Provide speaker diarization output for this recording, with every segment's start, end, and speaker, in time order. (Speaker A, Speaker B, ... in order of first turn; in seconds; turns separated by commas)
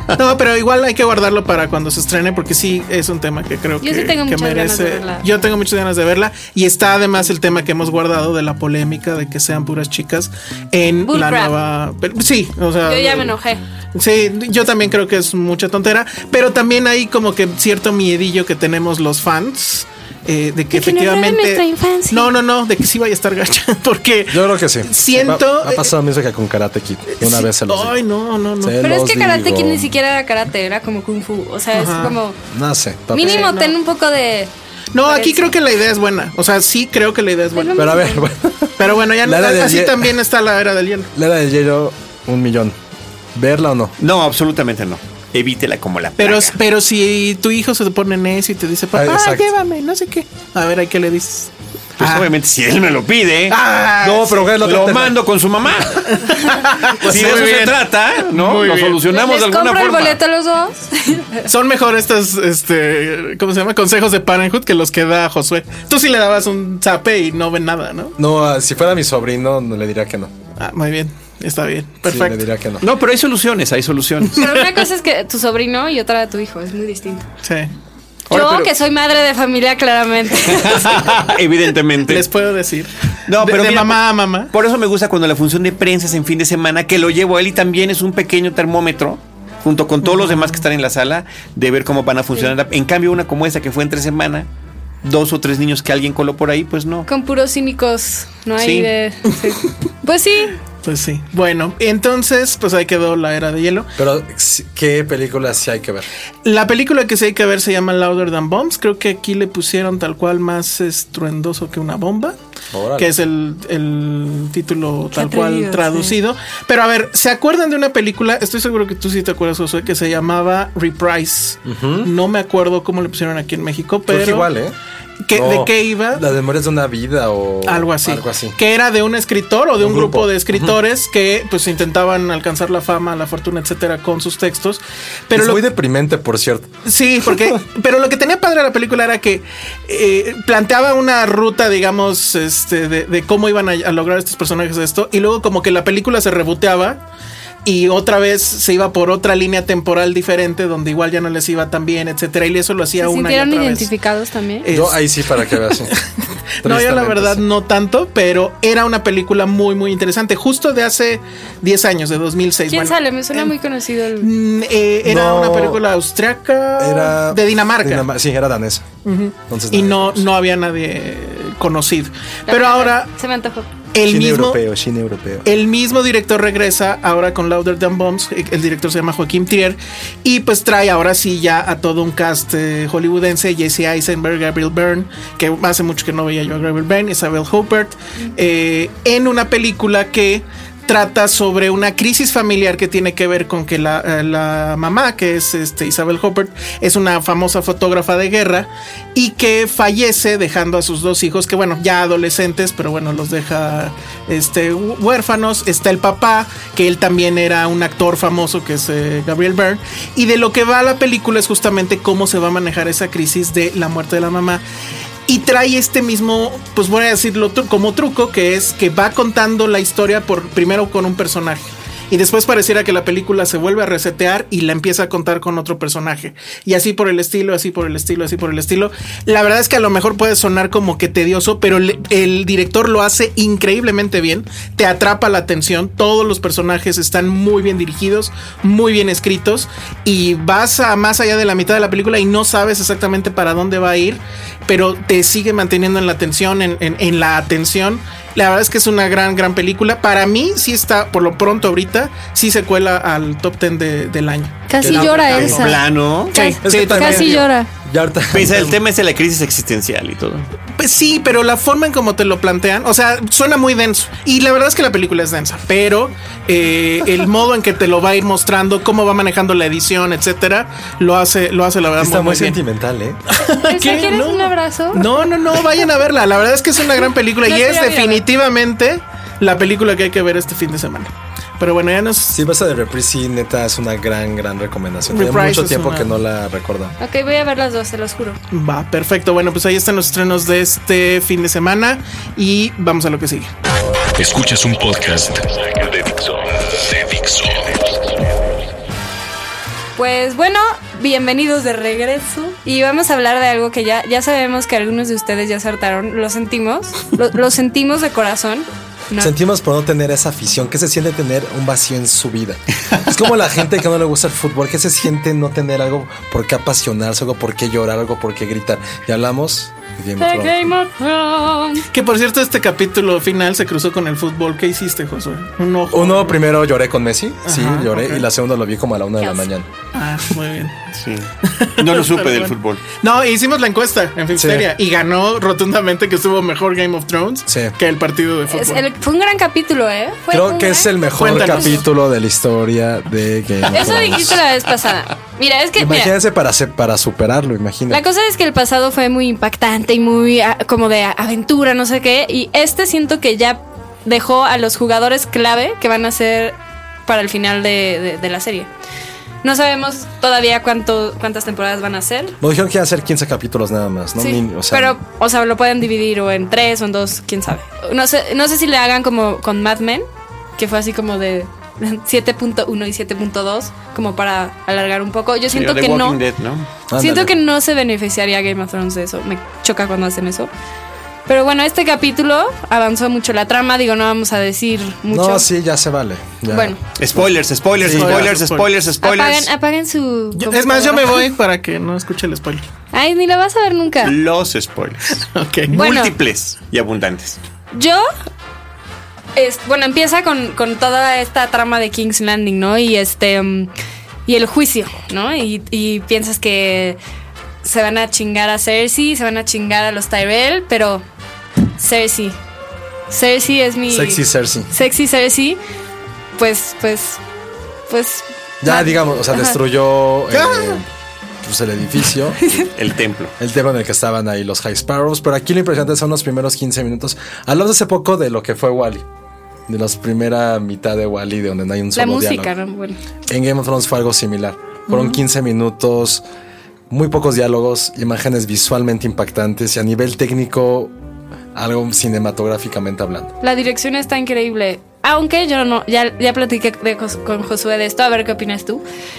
Speaker A: 0.1-13.4, Speaker B: 3.8-5.3, Speaker B: 11.1-11.5, Speaker B: 12.9-13.6, Speaker A: 13.9-25.9, Speaker B: 20.7-22.3, Speaker C: 24.3-28.0, Speaker A: 27.1-28.8, Speaker C: 28.6-29.9, Speaker B: 28.8-32.4, Speaker A: 31.7-32.2, Speaker C: 32.5-33.5, Speaker B: 33.1-34.5, Speaker A: 33.2-33.8, Speaker A: 34.9-38.0, Speaker B: 35.0-35.6, Speaker B: 37.5-38.3, Speaker C: 37.8-40.1, Speaker A: 38.8-41.1, Speaker C: 41.1-42.8, Speaker C: 43.4-43.9, Speaker D: 44.0-46.6, Speaker A: 46.2-52.3, Speaker C: 48.9-49.5, Speaker D: 52.0-53.6, Speaker A: 53.5-54.7, Speaker C: 54.0-55.2, Speaker D: 54.6-56.3, Speaker A: 56.1-59.0, Speaker C: 57.0-57.5, Speaker D: 57.0-60.2, Speaker B: 59.1-61.5, Speaker A: 61.5-68.2, Speaker C: 68.2-70.3, Speaker A: 70.6-72.4, Speaker C: 72.1-72.9, Speaker D: 72.8-74.5, Speaker B: 74.4-77.3, Speaker A: 77.4-77.7, Speaker D: 78.3-78.7, Speaker B: 78.3-81.0, Speaker D: 80.5-82.3, Speaker A: 82.1-84.5, Speaker D: 83.3-94.5, Speaker A: 90.0-90.6, Speaker D: 95.0-97.1, Speaker B: 97.1-100.6, Speaker D: 98.6-98.9, Speaker A: 100.8-103.9, Speaker C: 104.0-106.1, Speaker A: 106.5-112.4, Speaker C: 112.7-113.1, Speaker A: 113.0-124.5, Speaker B: 115.1-116.2, Speaker C: 121.7-122.1, Speaker C: 124.1-124.8, Speaker A: 125.2-126.2, Speaker C: 125.3-128.6, Speaker A: 127.7-135.6, Speaker C: 129.8-130.8, Speaker C: 135.3-136.7, Speaker A: 136.8-147.0, Speaker C: 137.2-137.6, Speaker A: 147.7-153.9, Speaker B: 153.0-154.7, Speaker A: 154.6-155.9, Speaker C: 154.7-156.0, Speaker C: 156.6-157.4, Speaker A: 156.6-163.5, Speaker B: 162.7-164.3, Speaker A: 164.2-168.1, Speaker C: 165.0-165.8, Speaker C: 166.8-168.9, Speaker A: 169.1-173.1, Speaker C: 169.5-170.3, Speaker B: 172.5-173.7, Speaker A: 173.9-174.6, Speaker C: 174.0-175.5, Speaker A: 175.4-214.6, Speaker A: 215.3-255.8, Speaker B: 254.7-255.8, Speaker C: 254.8-255.6, Speaker D: 255.3-256.3, Speaker A: 256.3-257.4, Speaker B: 256.3-257.7, Speaker C: 256.6-258.8, Speaker D: 258.3-260.5, Speaker A: 260.8-272.6, Speaker C: 272.0-273.2, Speaker A: 273.3-282.4, Speaker B: 273.5-275.1, Speaker B: 277.4-278.2, Speaker C: 282.3-287.0, Speaker A: 285.1-286.1, Speaker B: 287.0-288.4, Speaker A: 288.5-293.5, Speaker E: 294.1-298.1, Speaker B: 300.0-309.3, Speaker C: 309.2-320.7, Speaker B: 320.2-321.9, Speaker A: 321.9-326.4, Speaker C: 325.9-329.7, Speaker A: 327.4-328.2, Speaker A: 329.9-330.8, Speaker D: 331.0-332.8, Speaker A: 331.4-338.8, Speaker C: 334.3-334.7, Speaker C: 337.5-337.8, Speaker B: 338.5-341.8, Speaker C: 340.3-344.4, Speaker A: 341.2-341.9, Speaker B: 343.7-346.1, Speaker C: 345.8-348.0, Speaker B: 347.9-358.7, Speaker B: 359.4-362.4, Speaker C: 362.4-365.0, Speaker B: 364.2-370.1, Speaker B: 370.6-376.2, Speaker D: 375.5-376.7, Speaker C: 376.9-377.4, Speaker B: 377.0-380.5, Speaker B: 381.3-385.5, Speaker C: 385.1-386.8, Speaker B: 386.5-386.8, Speaker D: 387.0-389.5, Speaker C: 387.8-388.3, Speaker A: 387.8-388.7, Speaker B: 389.0-391.2, Speaker A: 390.4-392.7, Speaker B: 392.9-394.1, Speaker D: 394.0-397.4, Speaker A: 395.2-395.8, Speaker B: 395.7-396.1, Speaker B: 397.7-398.1, Speaker B: 399.4-403.7, Speaker B: 404.3-407.0, Speaker B: 407.6-411.0, Speaker B: 411.8-412.4, Speaker B: 413.1-415.6, Speaker C: 413.9-414.7, Speaker B: 416.4-417.2, Speaker B: 417.9-419.6, Speaker C: 418.6-420.9, Speaker C: 421.4-422.4, Speaker B: 422.4-422.7, Speaker D: 422.5-423.3, Speaker C: 423.4-429.1, Speaker C: 429.7-432.5, Speaker B: 431.9-433.0, Speaker C: 433.3-436.2, Speaker C: 436.9-440.9, Speaker C: 441.5-443.3, Speaker B: 443.4-448.8